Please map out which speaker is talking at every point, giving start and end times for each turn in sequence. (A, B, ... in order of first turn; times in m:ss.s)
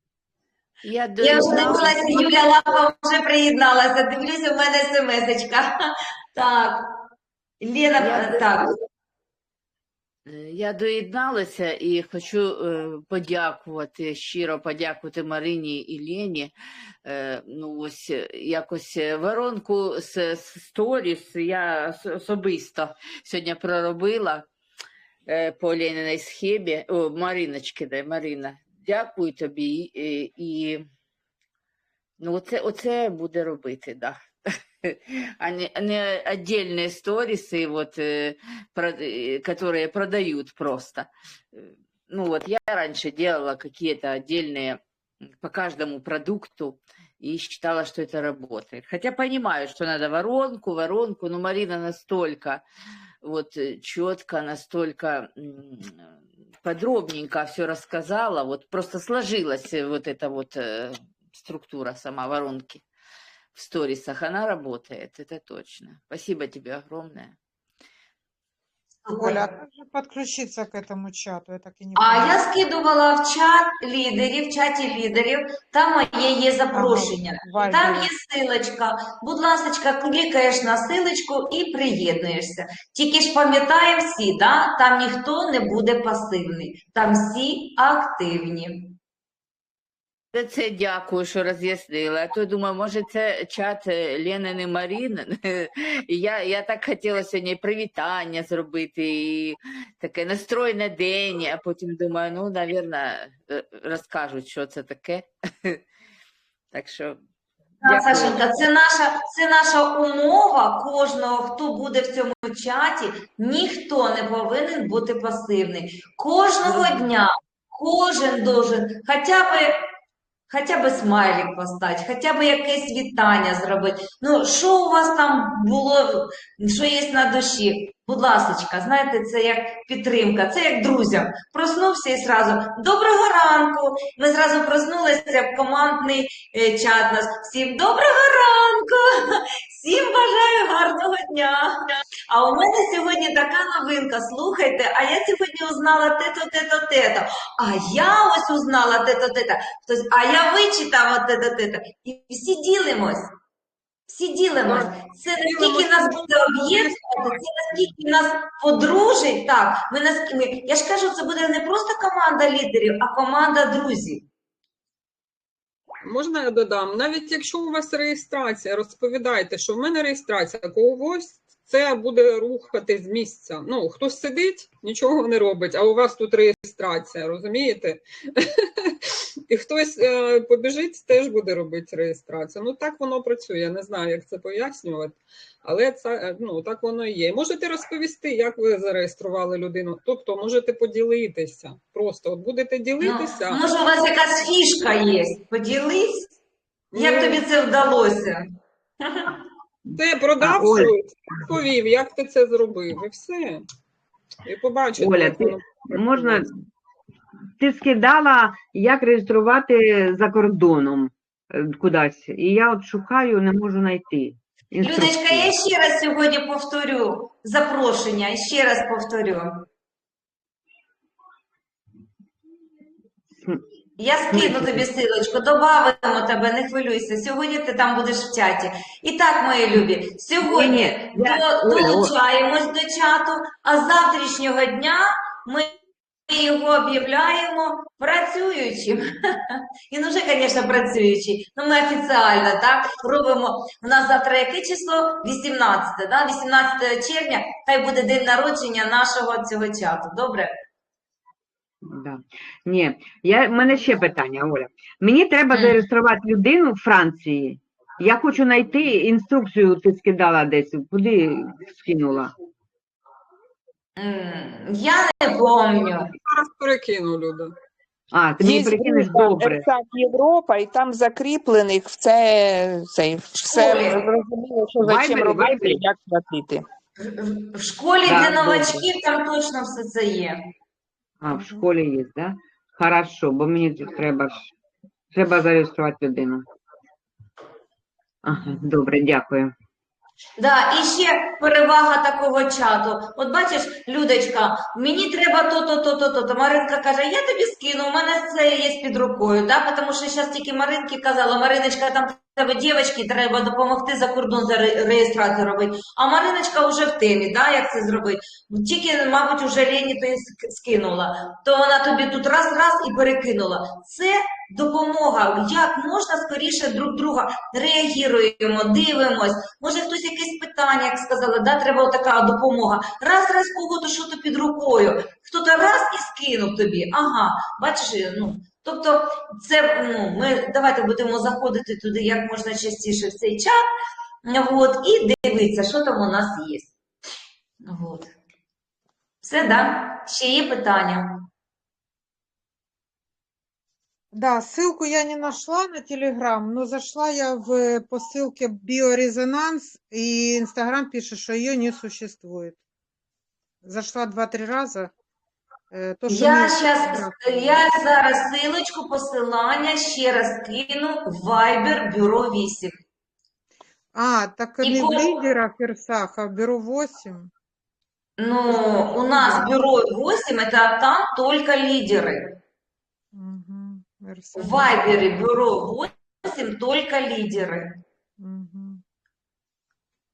0:00.8-0:02.5 A
0:01.2-0:05.7 B
0:06.4-0:06.9 B
0:07.6-0:08.7 B
0:08.0-0:08.5 A
0:10.3-0:16.5 A
0:17.0-0:24.5 A
0:25.3-0:30.8 A
0:32.2-0:44.8 A
0:45.4-0:52.6 A
0:53.2-0:56.0 A
0:56.6-1:02.8 A
1:03.5-1:07.4 A
1:09.1-1:09.4 B
1:09.1-1:12.5 C
1:12.0-1:29.0 B
1:16.7-1:18.1 C
1:30.3-1:45.8 A
1:46.7-1:47.2 A
1:47.8-1:48.6 A
1:47.8-1:59.8 B
2:00.5-2:21.7 B
2:22.3-2:33.3 B
2:34.1-2:44.3 B
2:34.6-2:37.4 D
2:46.0-2:59.0 D
2:59.5-3:13.6 D
3:13.0-3:16.3 B
3:16.9-3:17.5 D
3:17.0-3:18.4 B
3:20.0-3:23.6 D
3:20.4-3:20.9 E
3:24.4-3:26.5 D
3:25.0-3:26.5 E
3:27.6-3:35.5 E
3:34.8-3:39.5 B
3:44.0-3:55.7 B
3:44.3-3:44.8 E
3:50.4-3:52.1 E
3:56.3-3:59.1 B
3:59.9-4:10.5 B
4:11.9-4:22.3 E
4:15.5-4:15.8 B
4:24.0-4:26.1 B
4:25.8-4:27.5 D
4:28.1-4:29.6 E
4:28.4-4:36.6 F
4:33.4-4:34.0 B
4:34.8-4:35.8 E
4:37.0-4:40.4 B
4:38.1-4:38.8 E
4:41.2-4:44.5 E
4:41.3-4:41.7 C
4:45.1-4:46.4 E
4:48.2-4:49.5 E
4:48.3-4:48.6 B
4:50.4-5:33.6 B
5:34.2-5:36.7 B
5:37.6-5:38.1 B
5:39.2-5:41.2 B
5:44.1-5:52.6 C
5:53.6-5:54.9 C
5:55.7-5:57.6 C
5:56.1-6:02.7 B
6:03.9-6:07.3 C
6:04.6-6:05.1 B
6:08.2-6:12.4 B
6:08.5-6:09.5 C
6:13.1-6:15.2 C
6:14.4-6:17.7 B
6:18.2-6:18.8 C